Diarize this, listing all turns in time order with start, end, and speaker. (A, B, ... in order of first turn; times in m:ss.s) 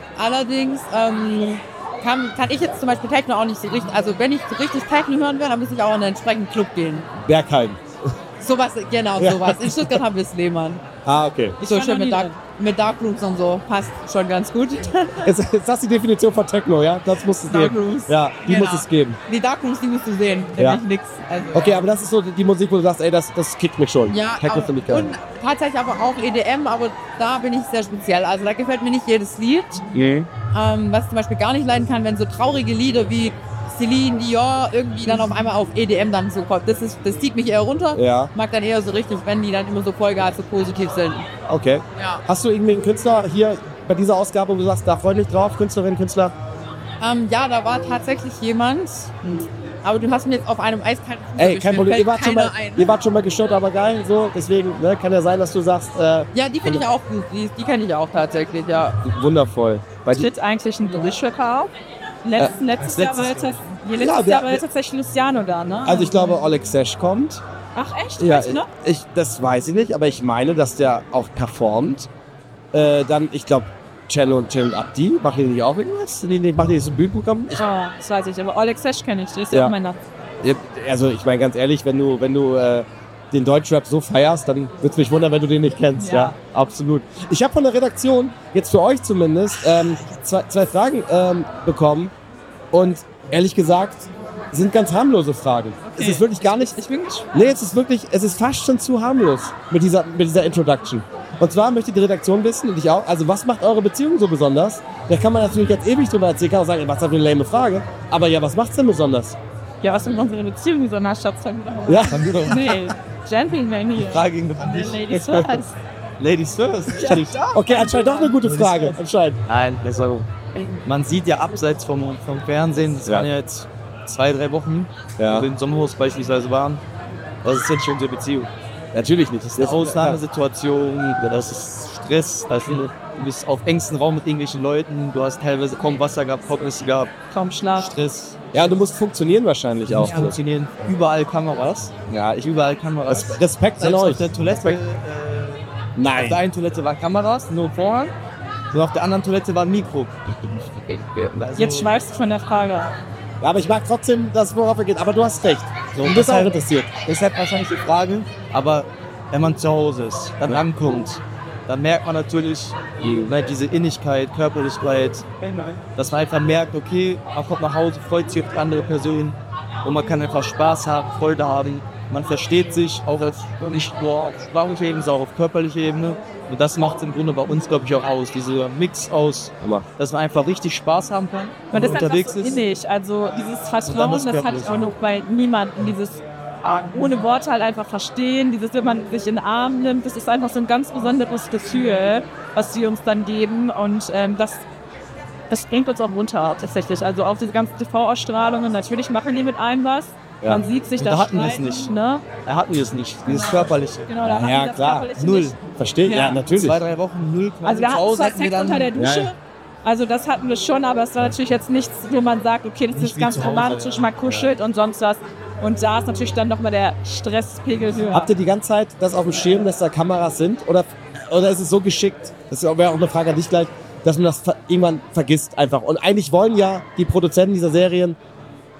0:00.1-0:07.1 A
0:07.2-0:07.8 B
0:08.4-0:10.8 A
0:09.2-0:10.0 B
0:11.0-0:11.6 B
0:11.6-0:12.3 C
0:11.6-0:15.3 A
0:15.2-0:19.2 B
0:17.5-0:21.8 A
0:20.6-0:20.8 B
0:21.5-0:25.1 B
0:24.1-0:29.8 A
0:29.9-0:30.3 B
0:30.5-0:41.3 A
0:37.9-0:38.3 B
0:41.4-0:46.3 B
0:42.0-0:42.2 A
0:47.0-0:52.9 A
0:51.4-0:56.8 B
0:56.3-0:59.0 A
0:59.0-1:00.3 B
1:00.1-1:01.7 C
1:02.2-1:06.1 C
1:02.8-1:03.5 D
1:03.9-1:04.6 B
1:05.8-1:07.4 B
1:07.7-1:08.7 C
1:08.2-1:12.1 B
1:12.7-1:17.6 B
1:17.5-1:20.0 C
1:20.4-1:32.1 B
1:26.0-1:26.3 C
1:32.7-1:36.8 B
1:35.8-1:37.4 C
1:37.3-1:49.4 B
1:49.8-1:55.7 C
1:51.9-1:52.2 B
1:52.1-1:52.9 D
1:54.1-1:55.1 D
1:55.1-1:55.6 B
1:56.2-1:57.4 D
1:56.9-1:58.4 C
1:57.5-1:59.4 B
1:58.4-2:06.8 D
2:03.0-2:03.3 B
2:05.2-2:05.5 B
2:07.4-2:08.5 D
2:08.9-2:10.2 B
2:09.5-2:17.1 D
2:17.3-2:17.9 C
2:17.8-2:18.6 D
2:18.5-2:20.4 B
2:19.9-2:28.1 D
2:22.1-2:22.5 B
2:23.1-2:24.8 B
2:26.0-2:26.4 B
2:28.7-2:31.9 D
2:31.5-2:32.9 C
2:33.4-2:36.9 B
2:35.9-3:02.6 D
2:43.0-2:43.3 B
2:59.6-2:59.9 B
3:01.7-3:14.6 C
3:03.8-3:04.8 D
3:15.5-3:22.2 C
3:21.0-3:21.9 D
3:22.4-3:24.1 D
3:23.3-3:25.6 C
3:24.2-3:25.1 B
3:25.2-3:29.0 D
3:25.7-3:26.8 B
3:27.6-3:38.3 C
3:29.0-3:29.3 B
3:32.9-3:34.3 D
3:38.1-3:48.2 B